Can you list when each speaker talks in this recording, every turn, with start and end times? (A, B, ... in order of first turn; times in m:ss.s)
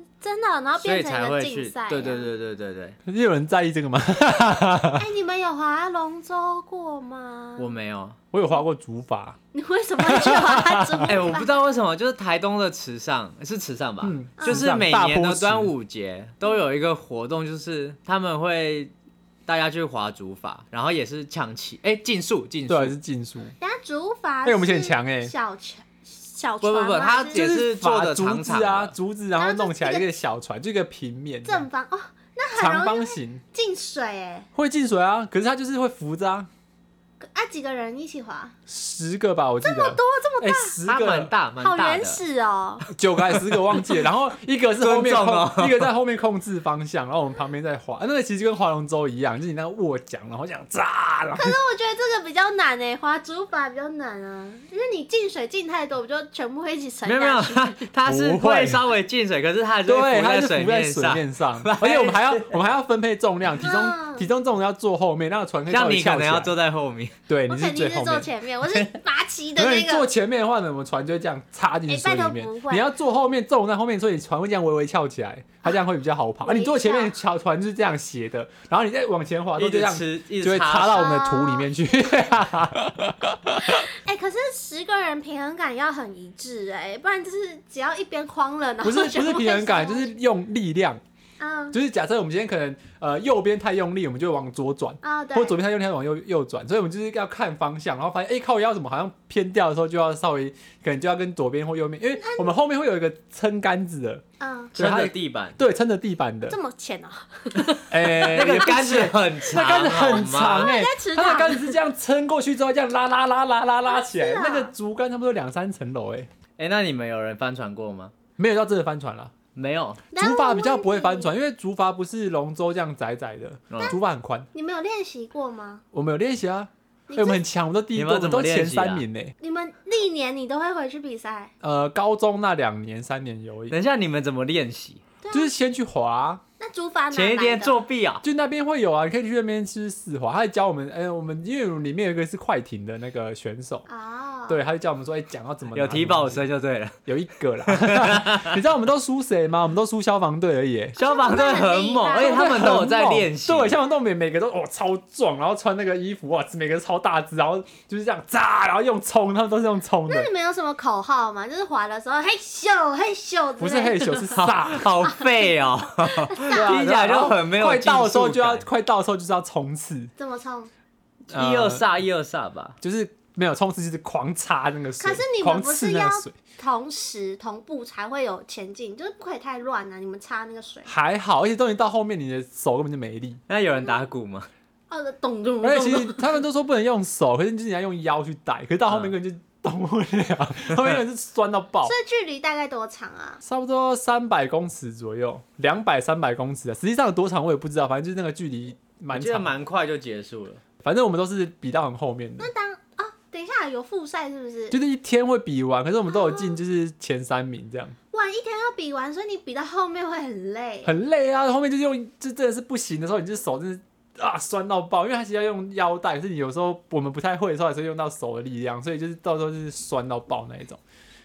0:00.2-0:02.3 A
0:00.8-0:03.0 B
0:03.0-0:05.0 C
0:05.0-0:07.7 A
0:07.6-0:08.2 B
0:08.3-0:09.4 C
0:09.5-0:11.6 A
0:10.0-0:11.2 C
0:11.0-0:18.9 B
0:14.0-0:15.7 C
0:14.4-0:14.7 A
0:19.5-0:22.9 B
0:22.7-0:23.5 C
0:23.6-0:27.4 A
0:24.4-0:25.3 C
0:26.6-0:28.9 B
0:27.3-0:31.6 C
0:29.4-0:30.1 A
0:31.4-0:34.5 A
0:32.5-0:33.4 C
0:34.5-0:36.5 C
0:37.2-0:38.5 A
0:38.7-0:41.3 C
0:39.6-0:40.8 A
0:40.8-0:42.2 B
0:41.6-0:42.9 A
0:42.9-0:51.6 C
0:44.8-0:45.9 B
0:51.4-0:57.9 A
0:57.0-1:02.6 B
0:58.0-0:58.8 C
0:59.8-1:06.5 C
1:03.6-1:04.3 A
1:05.7-1:07.2 B
1:07.3-1:08.3 C
1:07.5-1:10.1 A
1:09.6-1:23.9 C
1:11.9-1:12.9 A
1:16.4-1:17.1 A
1:19.6-1:21.1 B
1:20.9-1:21.7 A
1:23.6-1:30.1 A
1:28.8-1:31.0 C
1:31.4-1:31.8 A
1:31.7-1:44.2 C
1:35.0-1:35.6 A
1:42.2-1:42.5 A
1:44.4-1:44.7 A
1:44.7-1:46.6 C
1:44.7-1:45.6 B
1:46.5-1:49.0 A
1:47.9-1:56.3 C
1:48.2-1:50.7 B
1:49.9-1:51.8 A
1:53.9-1:54.7 A
1:56.6-1:58.1 B
1:58.4-1:59.3 C
1:59.5-2:00.0 B
2:00.1-2:01.3 A
2:00.2-2:04.5 C
2:03.7-2:04.0 B
2:04.5-2:05.8 A
2:05.9-2:09.3 C
2:07.1-2:07.4 A
2:07.9-2:09.0 B
2:09.4-2:11.5 A
2:11.6-2:13.8 C
2:13.7-2:15.0 B
2:15.2-2:15.5 A
2:15.3-2:16.4 C
2:16.6-2:17.8 A
2:17.1-2:18.2 B
2:18.2-2:23.8 C
2:23.9-2:24.6 A
2:24.5-2:26.4 C
2:25.7-2:27.0 B
2:27.0-2:31.0 C
2:27.6-2:28.6 B
2:31.0-2:33.8 B
2:31.0-2:32.9 A
2:32.2-2:40.3 C
2:40.1-2:44.5 A
2:43.6-2:44.9 C
2:44.4-2:48.6 B
2:45.0-2:46.6 A
2:46.5-2:50.1 C
2:50.2-2:50.7 A
2:51.3-2:51.9 C
2:51.3-2:52.8 B
2:52.8-2:56.3 C
2:55.0-3:00.9 A
3:00.9-3:03.4 C
3:03.5-3:04.5 B
3:04.9-3:06.4 A
3:05.6-3:11.9 C
3:08.8-3:09.1 B
3:11.8-3:13.4 A
3:13.4-3:19.5 C
3:19.1-3:20.6 B
3:20.8-3:22.5 C
3:22.4-3:24.8 A
3:24.7-3:27.9 C
3:26.1-3:26.6 A
3:28.1-3:30.9 A
3:30.8-3:40.8 C